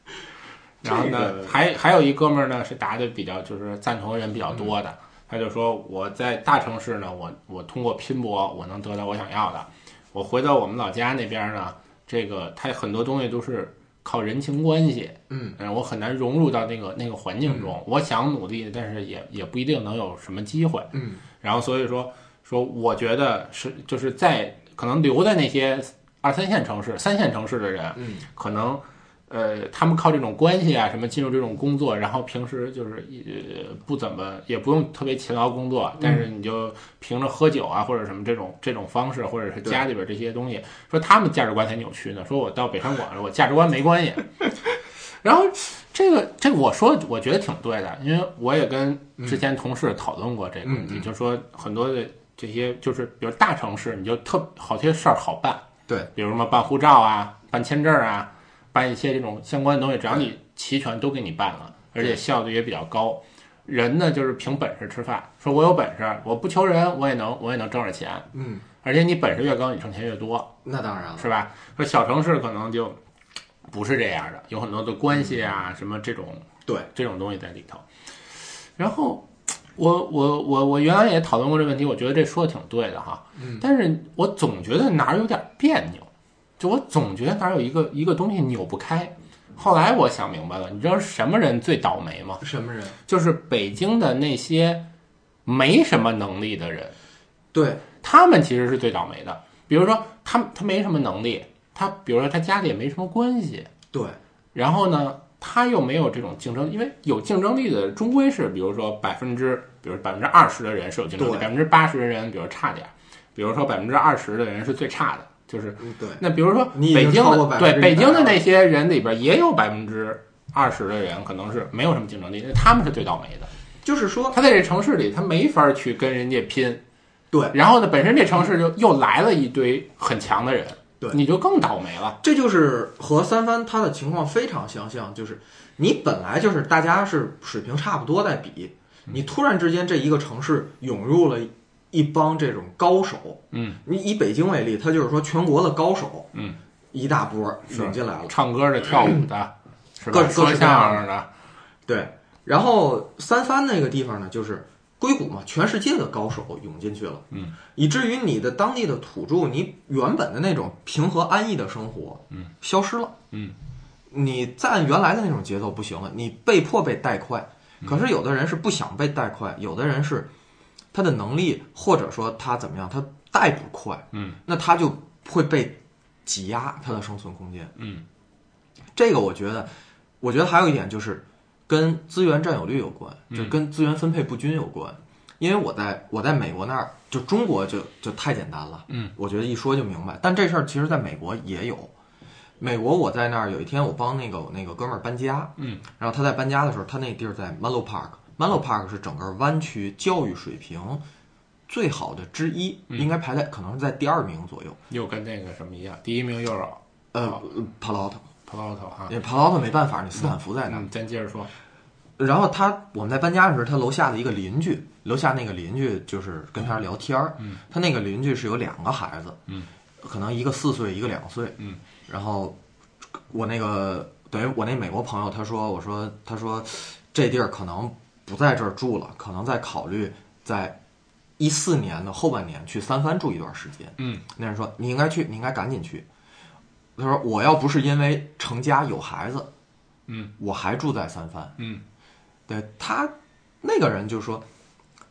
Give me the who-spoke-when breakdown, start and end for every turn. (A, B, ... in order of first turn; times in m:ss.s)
0:00.8-0:44.3 A
0:00.8-0:01.5 B
0:15.3-0:15.6 B
0:20.9-0:21.2 B
0:28.0-0:28.3 B
0:45.2-1:08.3 A
0:50.6-0:51.1 B
1:08.3-1:08.7 B
1:08.8-1:10.6 A
1:10.6-1:11.3 B
1:11.2-1:13.0 A
1:13.7-1:17.8 A
1:18.8-1:26.1 A
1:23.4-1:23.7 B
1:26.6-1:32.4 A
1:32.4-1:33.0 B
1:33.1-1:34.9 A
1:35.5-1:37.0 A
1:37.5-1:37.9 B
1:38.0-1:43.7 A
1:43.9-1:44.2 B
1:44.5-2:03.5 A
1:51.2-1:51.5 B
1:55.8-1:58.4 B
2:03.8-2:04.4 B
2:04.3-2:06.8 A
2:07.3-2:07.6 B
2:07.5-2:12.2 A
2:12.2-2:26.3 B
2:23.5-2:23.8 A
2:26.3-2:26.6 A
2:26.9-2:28.4 B
2:27.7-2:31.3 A
2:29.0-2:29.2 B
2:30.1-2:31.1 B
2:31.9-2:43.2 B
2:44.1-2:50.3 B
2:50.9-2:57.7 B
2:54.1-2:54.4 A
2:57.8-2:58.0 A
2:59.0-2:59.7 B
3:00.2-3:11.9 B
3:03.3-3:03.6 A
3:12.6-3:21.0 B
3:15.6-3:15.8 A
3:21.7-3:24.8 B
3:24.9-3:27.4 A
3:27.1-3:28.3 B
3:28.5-3:29.1 A
3:29.1-3:30.9 B
3:30.2-3:31.5 A
3:32.2-3:39.4 B
3:40.0-3:42.6 B
3:43.3-3:50.8 B
3:51.4-3:56.1 B
3:54.0-3:54.2 A
3:57.0-3:59.5 B
4:00.4-4:01.6 B
4:01.6-4:01.8 A
4:02.5-4:04.5 B